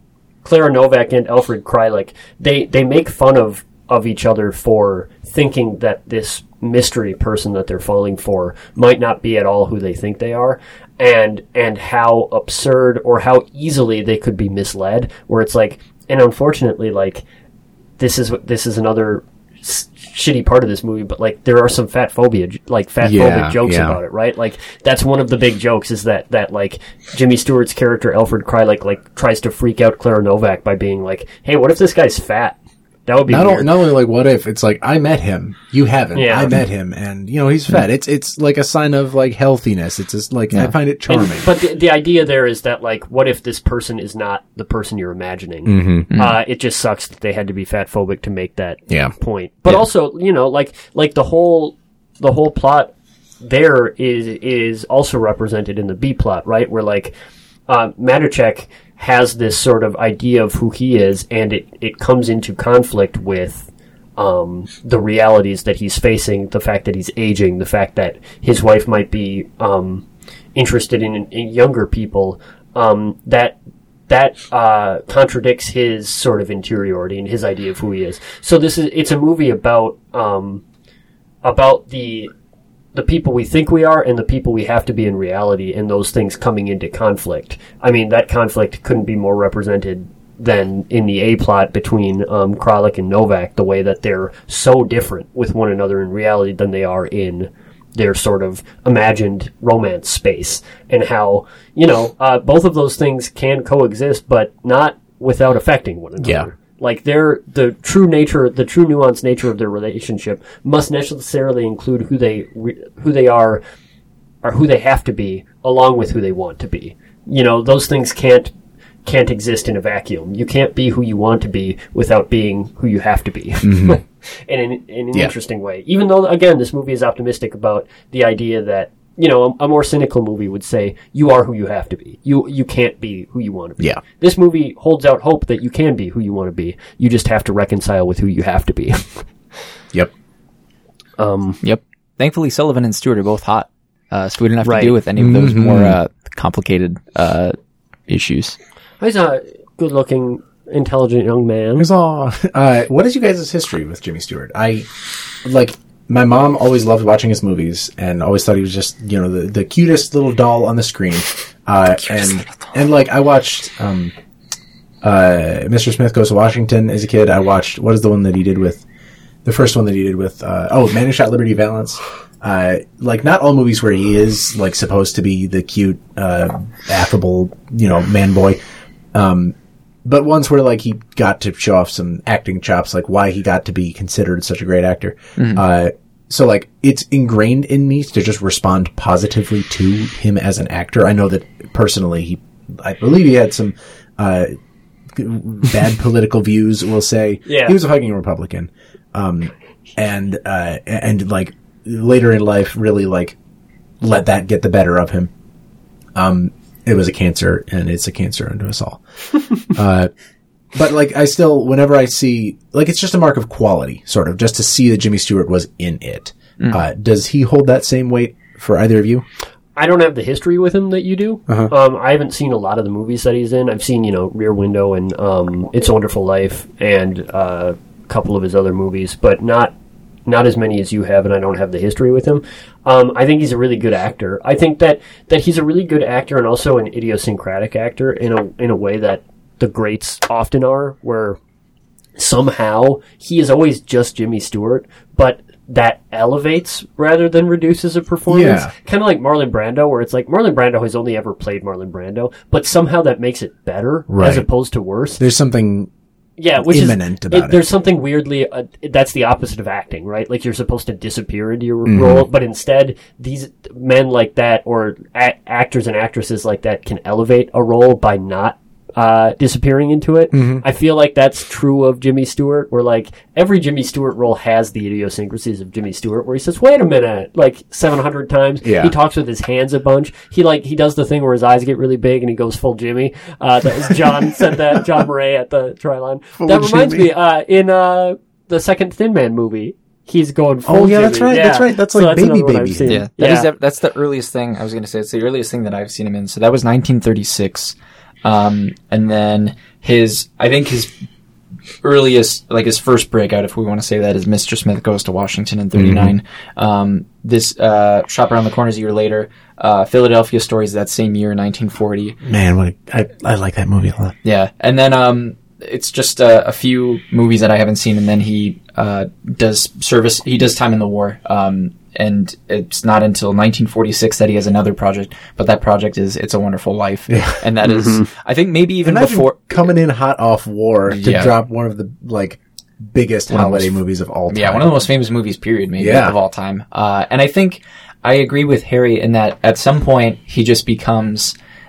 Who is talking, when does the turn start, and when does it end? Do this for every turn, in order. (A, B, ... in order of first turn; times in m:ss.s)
0:00.4-0:17.2 A
0:18.0-0:33.7 A
0:23.0-0:24.0 B
0:33.3-0:41.5 B
0:36.2-0:36.5 A
0:41.1-0:57.1 A
0:45.6-0:46.1 B
0:46.1-0:46.4 C
0:48.9-0:49.1 B
0:57.7-1:13.6 A
1:14.1-1:20.6 A
1:21.4-1:22.3 A
1:23.0-1:53.6 A
1:46.2-1:46.5 B
1:54.4-1:58.5 A
1:59.0-2:19.3 A
2:03.6-2:04.0 B
2:21.2-2:21.6 A
2:21.6-2:27.6 C
2:24.6-2:25.0 A
2:25.2-2:26.0 B
2:28.1-2:28.6 C
2:29.0-2:31.9 A
2:31.8-2:34.9 B
2:35.4-2:44.1 B
2:42.1-2:42.7 C
2:45.0-2:48.8 B
2:49.4-2:58.6 B
2:59.1-3:14.5 B
3:05.4-3:05.6 C
3:15.1-3:23.4 B
3:17.5-3:17.8 A
3:24.0-3:25.3 B
3:26.2-3:29.0 B
3:29.6-3:30.1 B
3:30.7-3:39.2 B
3:39.8-3:49.8 A
3:50.3-4:01.4 A
4:02.2-4:15.2 A
4:08.3-4:08.8 B
4:14.1-4:14.5 B
4:15.2-4:15.9 B
4:16.4-4:53.5 A
4:16.6-4:17.6 B
4:21.8-4:22.3 B
4:30.3-4:30.6 B
4:38.6-4:38.9 B
4:46.4-4:47.1 B
4:50.7-4:53.0 B
4:52.9-5:00.9 C
5:01.8-5:12.2 C
5:05.8-5:06.2 B
5:12.2-5:14.2 B
5:14.2-5:29.6 C
5:27.1-5:27.4 B
5:27.6-5:28.1 A
5:28.8-5:34.8 B
5:30.9-5:31.3 C
5:33.3-5:33.8 C
5:34.3-5:41.3 C
5:35.8-5:36.2 B